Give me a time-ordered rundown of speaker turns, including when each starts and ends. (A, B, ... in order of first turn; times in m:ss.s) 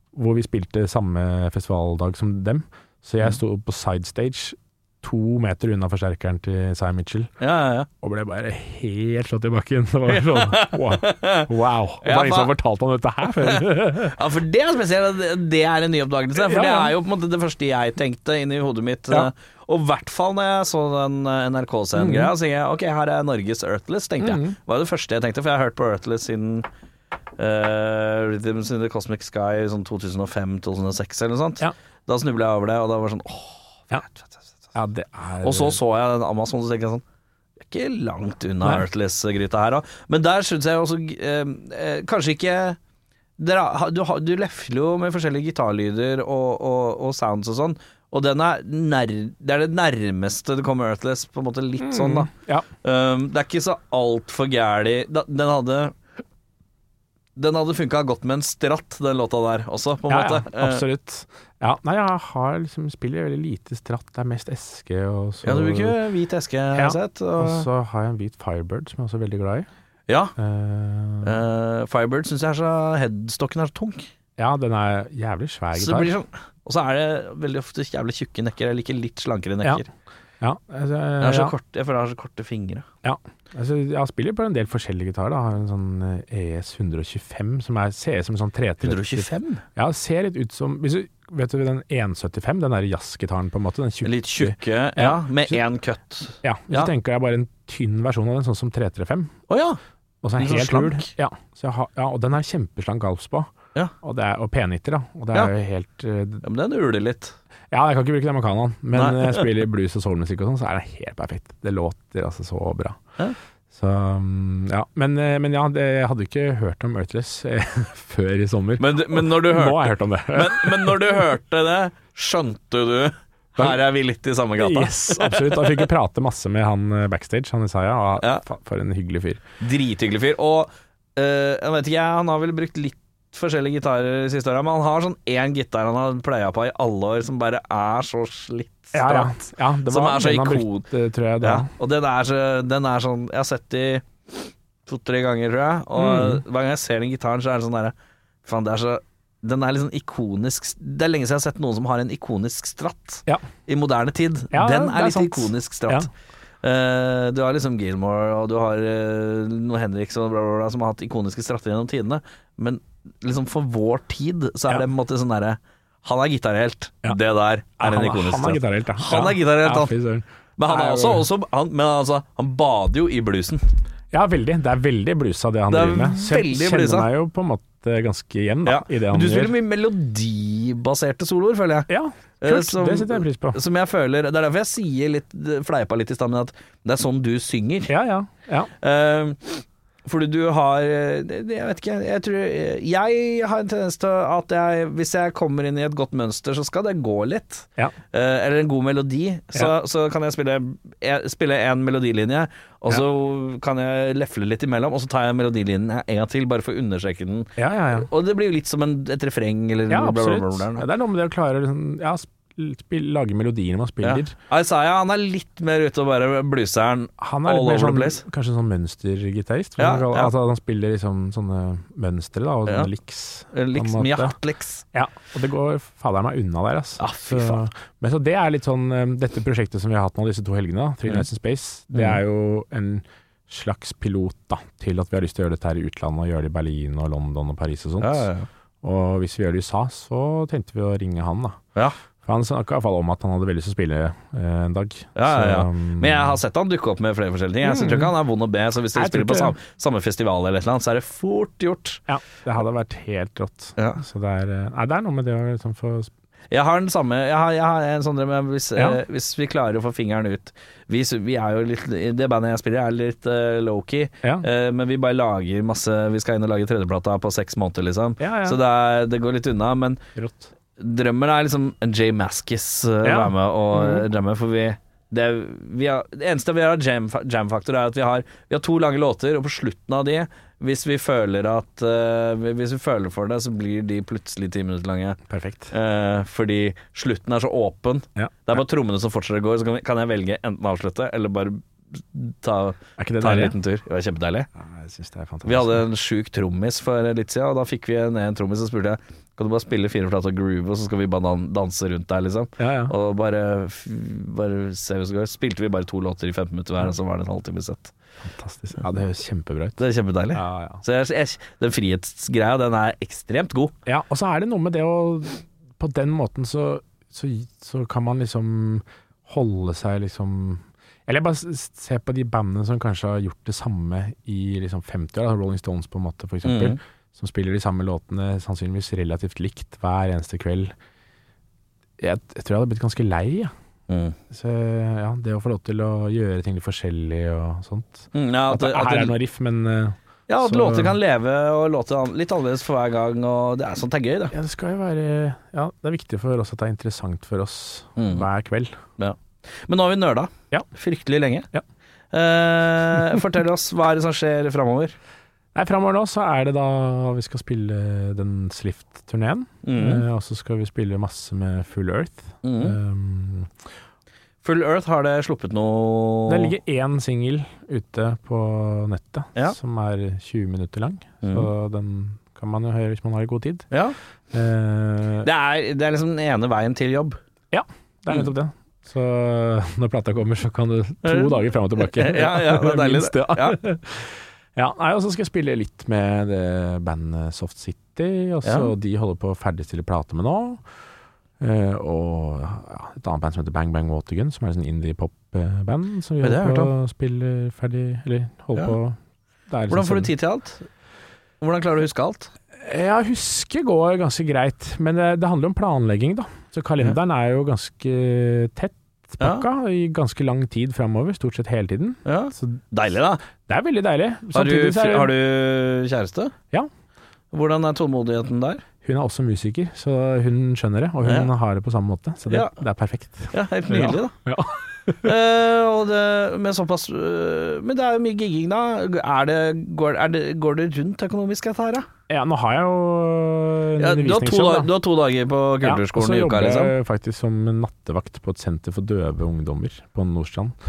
0:00.1-0:07.3 A
0:07.4-0:07.9 B
0:08.0-0:14.2 A
0:10.1-0:11.5 B
0:12.0-0:12.5 B
0:13.4-0:26.7 B
0:16.4-0:16.9 A
0:22.0-0:22.3 A
0:24.2-0:24.6 A
0:27.4-0:34.4 B
0:34.7-0:35.8 A
0:35.4-0:37.0 B
0:37.6-0:42.8 B
0:43.4-0:52.3 B
0:51.8-0:52.7 A
0:52.8-0:56.0 B
0:57.4-1:00.8 B
1:00.1-1:06.0 A
1:05.4-1:07.7 B
1:06.8-1:09.7 A
1:10.1-1:10.3 B
1:10.4-1:11.4 A
1:11.2-1:14.0 B
1:14.4-1:16.1 A
1:15.7-1:19.9 B
1:20.4-1:21.5 A
1:21.2-1:22.8 B
1:23.0-1:35.6 A
1:28.8-1:29.6 B
1:34.0-1:36.9 B
1:36.4-1:39.3 A
1:39.5-1:39.8 B
1:40.2-1:46.4 A
1:40.4-1:41.1 B
1:46.4-1:47.3 B
1:47.7-1:53.0 A
1:48.9-1:49.4 B
1:53.7-2:01.2 A
1:58.8-2:05.8 B
2:04.6-2:09.4 A
2:09.6-2:20.9 B
2:18.9-2:21.7 A
2:21.4-2:36.1 B
2:26.0-2:26.4 A
2:34.5-2:36.1 A
2:36.6-2:49.9 B
2:47.8-2:51.3 A
2:50.6-2:53.6 B
2:54.1-2:59.5 A
2:55.7-2:57.1 B
2:58.6-3:01.9 B
3:01.9-3:03.6 A
3:02.4-3:07.9 B
3:07.9-3:08.7 A
3:08.8-3:30.8 B
3:27.6-3:28.1 A
3:29.9-3:34.3 A
3:34.0-3:38.2 B
3:37.2-3:44.4 A
3:39.8-3:40.3 B
3:43.5-3:44.8 B
3:44.9-3:58.3 A
3:47.0-3:47.6 B
3:51.9-3:52.2 B
3:58.0-3:58.5 B
3:58.8-4:01.6 A
4:02.2-4:06.4 A
4:05.1-4:12.0 B
4:07.6-4:08.1 A
4:08.9-4:09.5 A
4:12.1-4:16.1 A
4:16.5-4:30.0 B
4:28.2-4:28.6 A
4:30.1-4:30.5 A
4:30.8-4:45.2 B
4:33.0-4:34.1 A
4:45.3-4:45.7 A
4:45.7-4:54.5 B
4:48.2-4:48.6 A
4:53.0-4:53.5 A
4:54.6-4:55.8 A
4:55.4-5:07.9 B
5:02.6-5:02.9 A
5:08.2-5:10.8 A
5:09.8-5:13.7 B
5:13.8-5:30.7 A
5:26.4-5:26.8 B
5:32.0-5:33.5 A
5:33.9-5:34.2 B
5:34.3-5:41.0 A
5:38.1-5:39.1 B
5:40.3-5:44.3 B
5:44.3-5:48.8 A
5:48.0-5:48.2 B
5:49.0-5:51.5 B
5:52.1-5:55.0 B
5:55.5-6:03.5 A
5:59.6-6:00.0 B
6:02.4-6:02.8 B
6:04.4-6:06.5 B
6:06.3-6:13.7 A
6:11.2-6:11.5 B
6:14.3-6:15.3 A
6:15.2-6:17.2 B
6:17.5-6:30.6 A
6:21.0-6:23.6 B
6:28.4-6:28.7 B
6:31.4-6:39.0 A
6:36.2-6:36.7 B
6:39.5-6:40.1 A
6:39.7-6:40.7 B
6:41.4-6:42.3 B
6:42.6-6:52.6 A
6:49.2-6:49.4 B
6:52.0-6:53.2 B
6:53.4-6:55.2 A
6:54.3-6:56.3 B
6:57.3-6:58.6 B
6:58.8-7:05.1 A
7:01.0-7:01.3 B
7:02.3-7:02.6 B
7:03.3-7:04.1 B
7:05.0-7:11.8 B
7:12.1-7:14.7 A
7:13.8-7:16.7 B
7:15.6-7:20.5 A